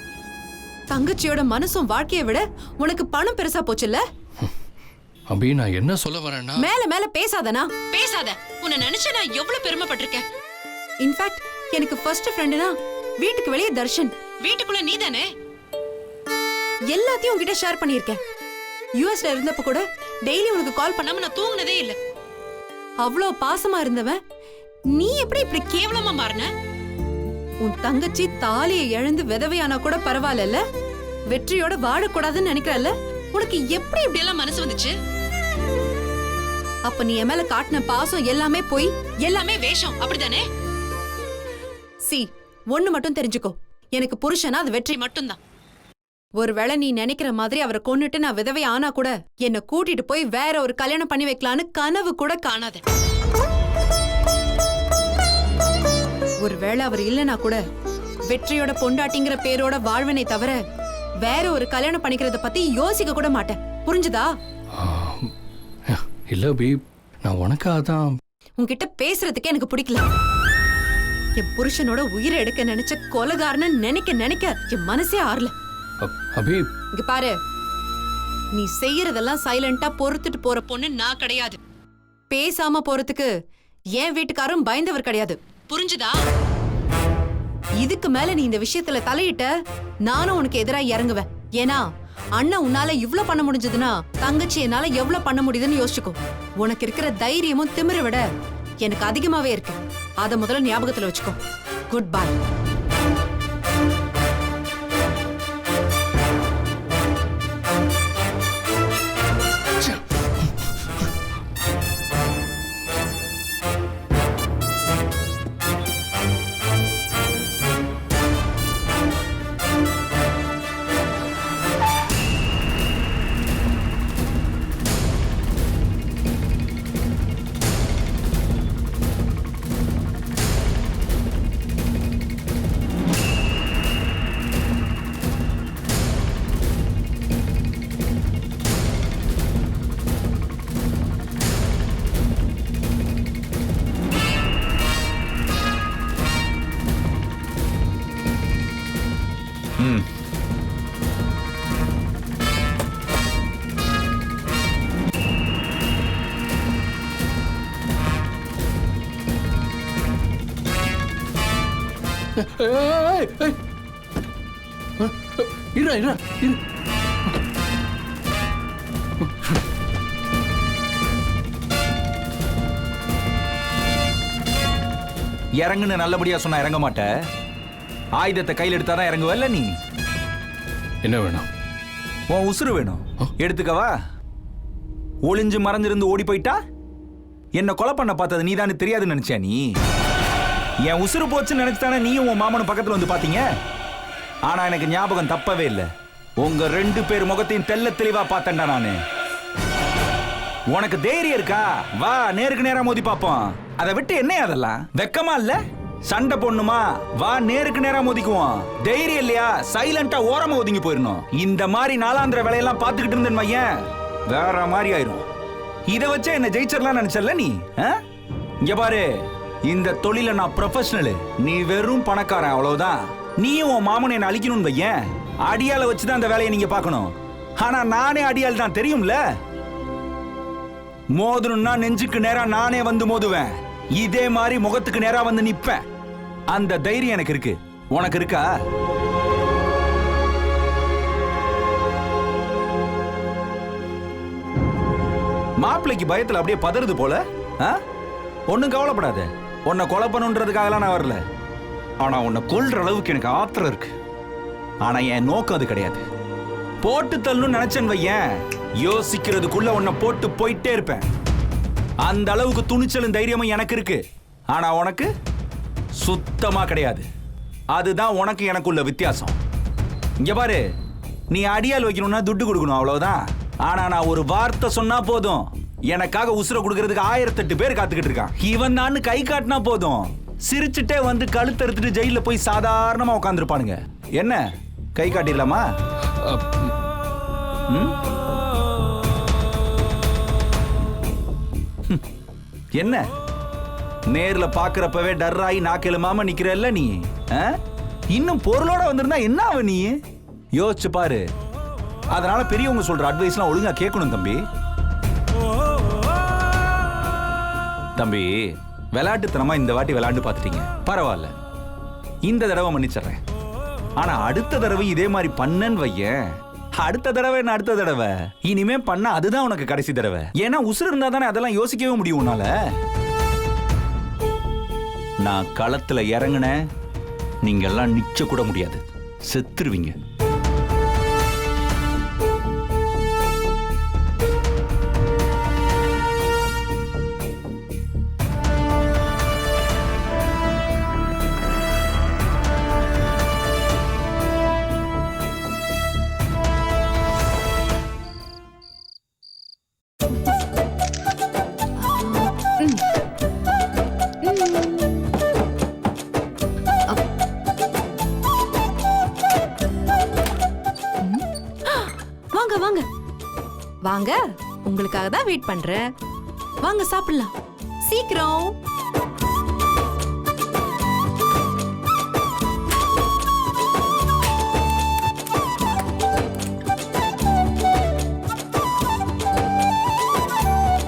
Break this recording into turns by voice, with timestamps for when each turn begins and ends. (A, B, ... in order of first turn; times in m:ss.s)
0:00.9-0:04.0 A
0:05.3-0:06.7 B
0:06.6-0:10.2 A
0:11.0-0:15.3 A
0:16.9-0:18.2 A
0:19.0-0:22.0 A
0:23.0-0:24.2 A
0:24.9-0:26.5 A
0:27.6-0:30.6 A
0:31.3-0:34.9 A
0:36.9-0:40.4 A
0:42.0-0:45.4 A
0:46.4-0:52.8 A
0:56.4-0:57.6 A
0:58.3-1:00.6 A
1:01.2-1:04.3 A
1:04.8-1:05.3 B
1:05.9-1:08.2 B
1:08.6-1:10.0 A
1:11.4-1:15.5 A
1:16.0-1:16.7 B
1:17.0-1:17.4 A
1:18.5-1:21.6 A
1:22.3-1:23.3 A
1:24.0-1:26.2 A
1:27.8-1:29.5 A
1:30.0-1:31.8 A
1:32.4-1:38.2 A
1:38.8-1:41.4 A
1:41.9-1:42.4 A
2:29.8-2:30.1 C
2:42.4-2:43.6 B
2:45.0-2:46.6 B
2:49.2-2:49.6 B
2:55.6-2:57.1 C
2:58.2-2:59.8 C
3:01.0-3:01.5 B
3:02.3-3:03.9 C
3:05.2-3:06.6 C
3:07.6-3:09.7 C
3:10.8-3:13.4 C
3:14.5-3:15.9 C
3:16.4-3:19.0 C
3:20.7-3:33.7 C
3:34.3-3:35.2 C
3:35.9-3:38.0 C
3:38.6-3:39.1 C
3:39.6-3:49.2 C
3:51.2-3:55.8 C
3:56.5-3:58.5 C
4:05.6-4:07.8 C
4:08.5-4:11.2 C
4:12.0-4:13.9 C
4:14.8-4:16.0 C
4:16.8-4:18.3 C
4:18.8-4:21.1 C
4:22.0-4:25.1 C
4:26.0-4:27.1 C
4:27.7-4:29.4 C
4:30.2-4:30.6 C
4:31.3-4:44.4 C
4:45.0-4:45.6 C
4:46.1-4:46.8 B
4:47.7-4:48.0 C
4:52.8-4:53.1 C
4:54.1-4:57.6 C
4:58.1-5:00.0 C
5:00.6-5:01.2 C
5:02.1-5:04.4 C
5:08.0-5:11.3 C
5:12.3-5:13.2 C
5:14.0-5:22.5 C
5:25.2-5:26.6 C
5:27.4-5:30.0 C
5:51.8-5:52.9 A
5:54.2-5:55.0 A
6:01.0-6:02.8 A
6:03.9-6:05.9 A
6:06.6-6:08.6 A